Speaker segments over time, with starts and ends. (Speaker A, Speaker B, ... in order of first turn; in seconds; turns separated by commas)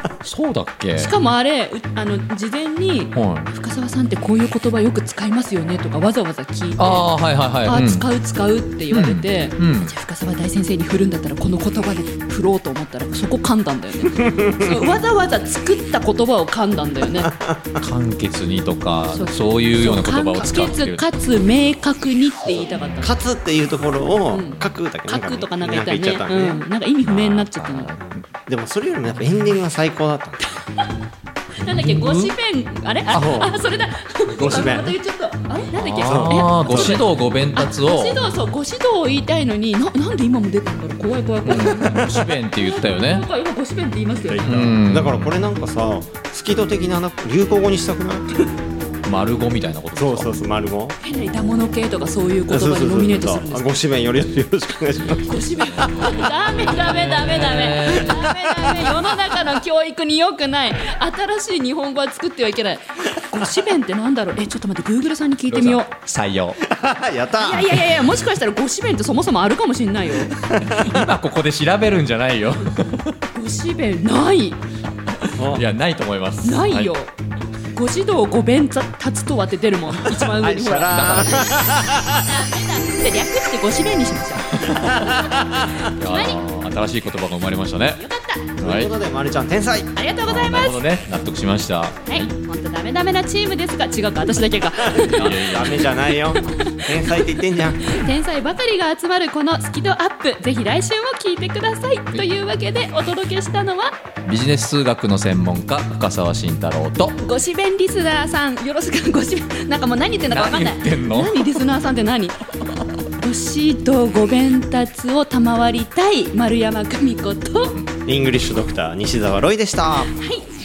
Speaker A: 0.2-1.1, Speaker B: 0.9-7.1, Speaker A: 3.1-3.5, Speaker A: 6.8-8.1, Speaker B: 7.6-17.3, Speaker A: 8.9-9.9, Speaker C: 14.2-14.7, Speaker A: 17.8-21.1, Speaker B: 19.1-23.2, Speaker C: 23.0-26.7, Speaker B: 24.3-27.9, Speaker A: 27.0-28.2, Speaker C: 28.5-30.6, Speaker A: 31.6-32.4, Speaker B: 31.6-44.5, Speaker C: 33.1-33.6, Speaker C: 34.3-35.0, Speaker A: 35.8-38.3, Speaker C: 36.0-37.0, Speaker A: 41.4-43.3, Speaker C: 44.3-48.3, Speaker A: 44.4-45.4, Speaker A: 49.0-50.3, Speaker C: 50.0-51.0, Speaker B: 51.0-53.8, Speaker C: 52.5-56.1, Speaker B: 55.2-65.9, Speaker A: 56.7-58.3, Speaker C: 57.9-58.7, Speaker A: 65.5-66.6, Speaker C: 66.7-67.8, Speaker B: 67.4-70.4, Speaker A: 70.5-73.2, Speaker C: 70.6-71.0, Speaker B: 73.3-74.6, Speaker A: 75.2-76.9, Speaker C: 75.4-75.7, Speaker B: 76.4-77.1, Speaker B: 77.7-81.5, Speaker C: 80.2-82.2, Speaker A: 80.9-81.7, Speaker B: 82.1-85.2, Speaker A: 84.6-85.1, Speaker C: 84.8-85.9, Speaker B: 85.9-86.4, Speaker A: 85.9-88.0, Speaker B: 88.0-88.5, Speaker C: 88.6-89.9, Speaker A: 88.6-89.0, Speaker B: 90.0-90.8, Speaker A: 90.2-92.3, Speaker B: 92.1-97.2, Speaker C: 94.9-98.0, Speaker A: 95.0-95.9, Speaker B: 97.8-103.9, Speaker A: 104.3-107.2, Speaker B: 107.2-112.4, Speaker A: 110.3-111.7, Speaker B: 113.2-117.8, Speaker C: 118.1-120.2, Speaker B: 120.2-120.5